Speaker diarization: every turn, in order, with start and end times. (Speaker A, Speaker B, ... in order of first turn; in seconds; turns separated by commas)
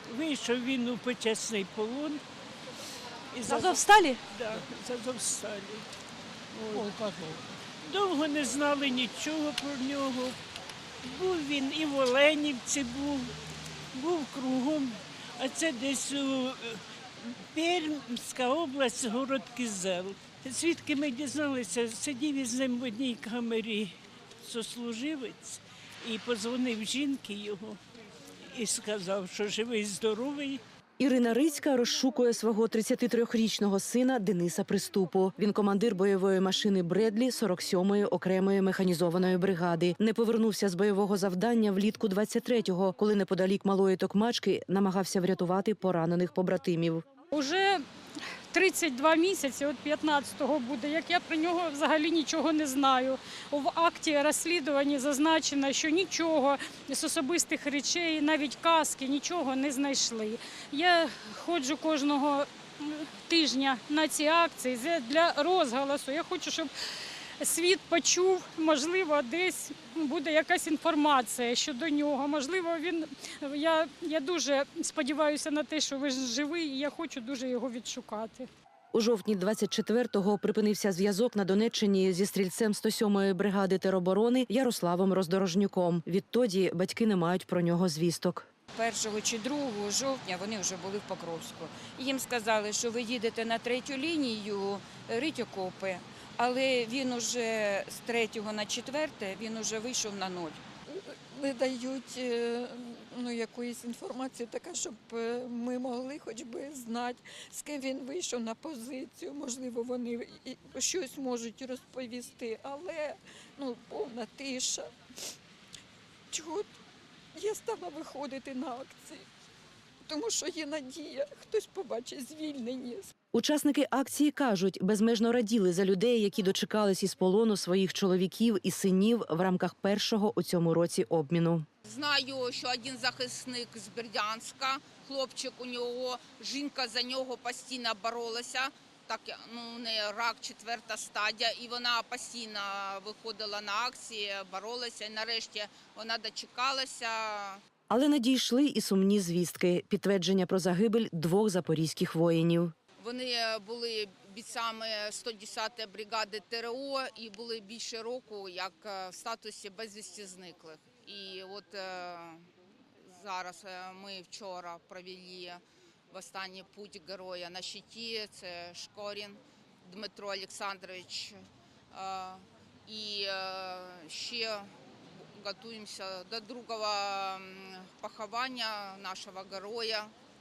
Speaker A: 0.1-2.2, Speaker A: 3.3-5.9, Speaker A: 6.5-7.0, Speaker A: 7.8-10.4, Speaker A: 11.0-13.3, Speaker A: 13.9-27.8, Speaker A: 28.5-30.6, Speaker B: 31.0-47.0, Speaker C: 47.3-47.8, Speaker C: 48.5-66.7, Speaker C: 67.4-78.5, Speaker B: 78.9-88.5, Speaker D: 88.7-100.6, Speaker E: 100.8-114.9, Speaker E: 116.3-116.7, Speaker E: 117.3-119.3, Speaker E: 120.0-123.1, Speaker B: 123.3-131.7, Speaker F: 131.8-147.6, Speaker B: 147.9-152.7, Speaker F: 153.0-162.5, Speaker F: 163.1-165.6, Speaker F: 166.1-171.4, Speaker F: 171.9-180.1